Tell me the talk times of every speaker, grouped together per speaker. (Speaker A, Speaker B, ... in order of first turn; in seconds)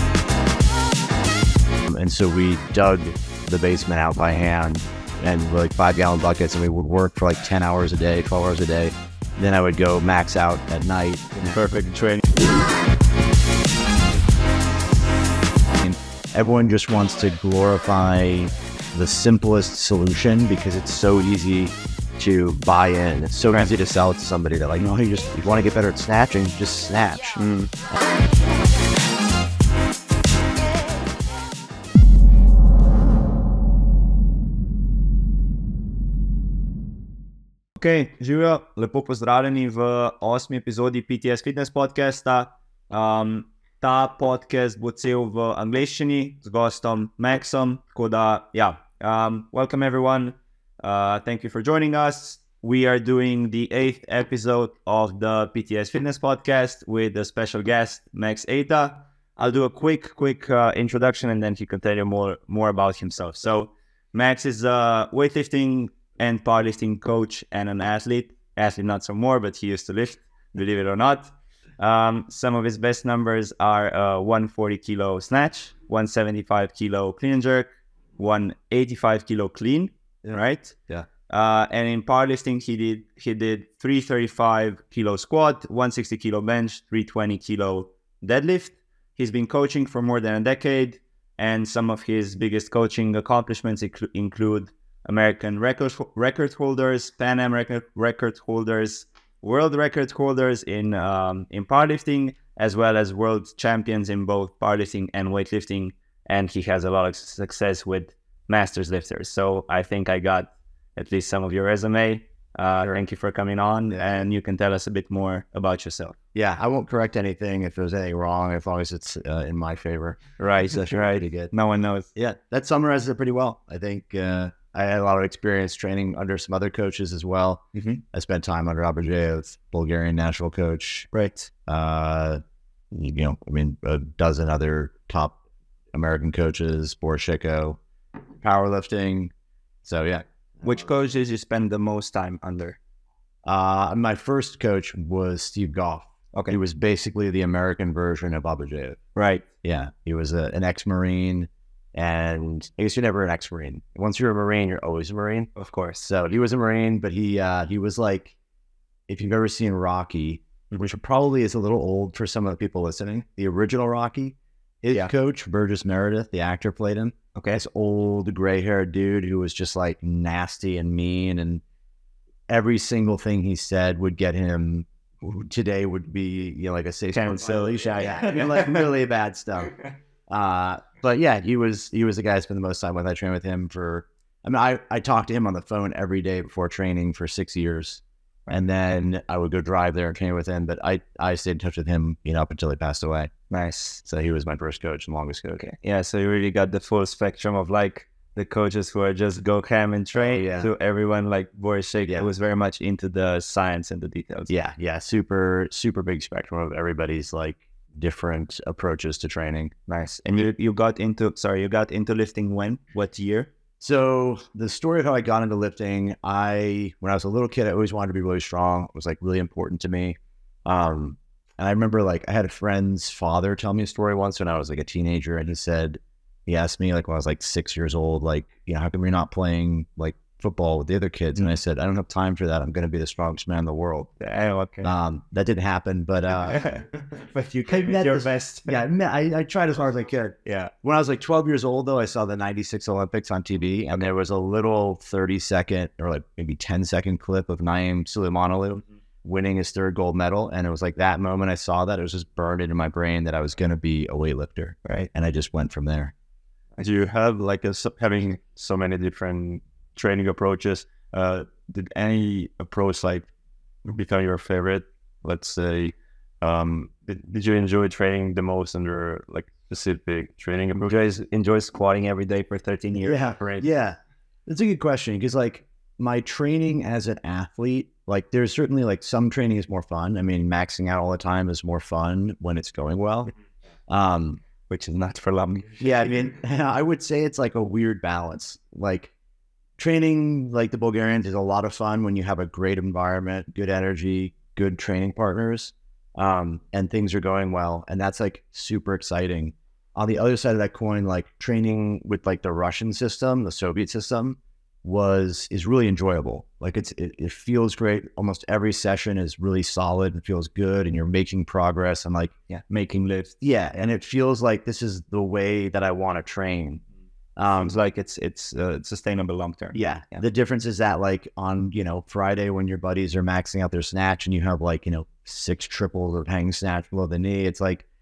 Speaker A: 1.9-11.6, 15.8-27.4, 80.2-81.1, 116.3-121.5, 122.1-131.1, 131.7-132.4, 132.9-135.4, 135.9-137.8, 138.4-139.3, 139.8-140.2, 143.4-149.0, 149.6-155.5, 156.0-158.3, 159.1-171.6, 172.5-179.8, 180.3-193.3, 194.0-195.6, 200.1-200.7, 204.5-209.7, 213.8-234.1, 234.8-236.7, 237.6-256.1, 273.0-283.3, 283.9-284.4, 285.8-289.1, 289.8-312.3, 313.4-316.8, 317.4-317.8, 319.7-327.8
Speaker B: 11.5-11.8, 27.4-27.7, 37.8-80.8, 81.3-116.2, 120.4-122.1, 127.7-128.0, 131.1-131.5, 140.6-142.8, 149.2-149.4, 155.6-156.0, 167.3-167.6, 177.1-178.8, 193.5-194.0, 195.6-204.5, 209.9-213.5, 234.2-234.9, 236.4-238.9, 240.4-240.7, 270.8-273.2, 284.7-286.1, 312.5-313.4, 317.6-320.2
Speaker C: 11.6-12.2, 256.8-263.3, 263.8-270.9, 273.3-273.7